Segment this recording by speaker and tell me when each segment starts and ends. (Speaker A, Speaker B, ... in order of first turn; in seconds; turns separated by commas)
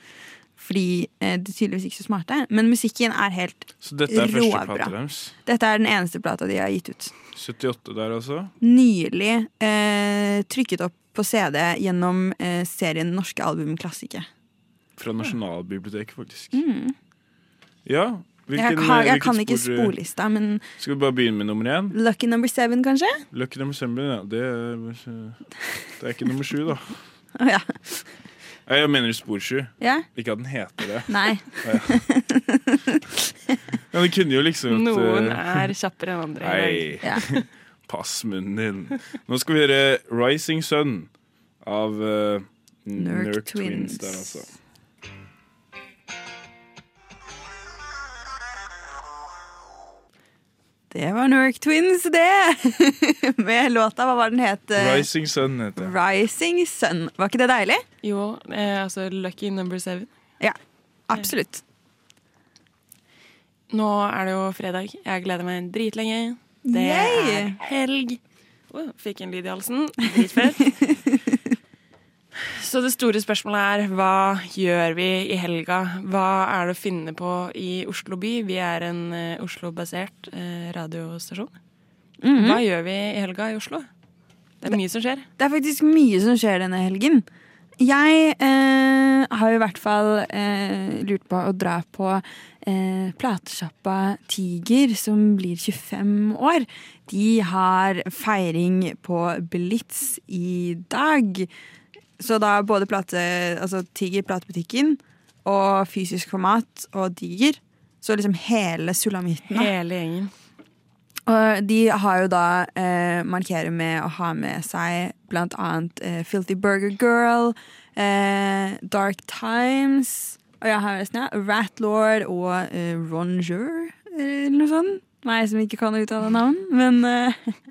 Speaker A: 0.6-4.9, Speaker B: 3.8-5.3, Speaker A: 5.5-7.1, Speaker B: 7.3-8.5, Speaker A: 8.6-14.3, Speaker B: 15.0-16.6, Speaker A: 16.5-16.9, Speaker B: 17.9-19.9, Speaker A: 18.5-20.6, Speaker B: 20.8-22.0, Speaker A: 21.9-23.3, Speaker B: 23.3-25.4, Speaker B: 26.0-27.0, Speaker A: 27.4-28.0, Speaker B: 28.7-32.0, Speaker A: 29.8-30.1, Speaker A: 31.1-33.5, Speaker B: 33.9-35.7, Speaker C: 34.7-37.5, Speaker B: 36.4-37.3, Speaker B: 37.9-41.1, Speaker B: 41.6-44.5, Speaker A: 43.0-44.4, Speaker A: 50.9-55.1, Speaker B: 54.8-55.9, Speaker A: 55.8-57.8, Speaker C: 58.0-60.1, Speaker A: 61.1-61.6, Speaker C: 63.7-70.8, Speaker A: 66.7-67.6, Speaker C: 72.4-81.5, Speaker A: 82.2-82.6, Speaker C: 82.4-83.9, Speaker C: 84.6-85.3, Speaker A: 85.4-87.3, Speaker A: 87.8-101.5, Speaker A: 102.2-109.7, Speaker C: 109.5-110.3, Speaker A: 111.3-127.6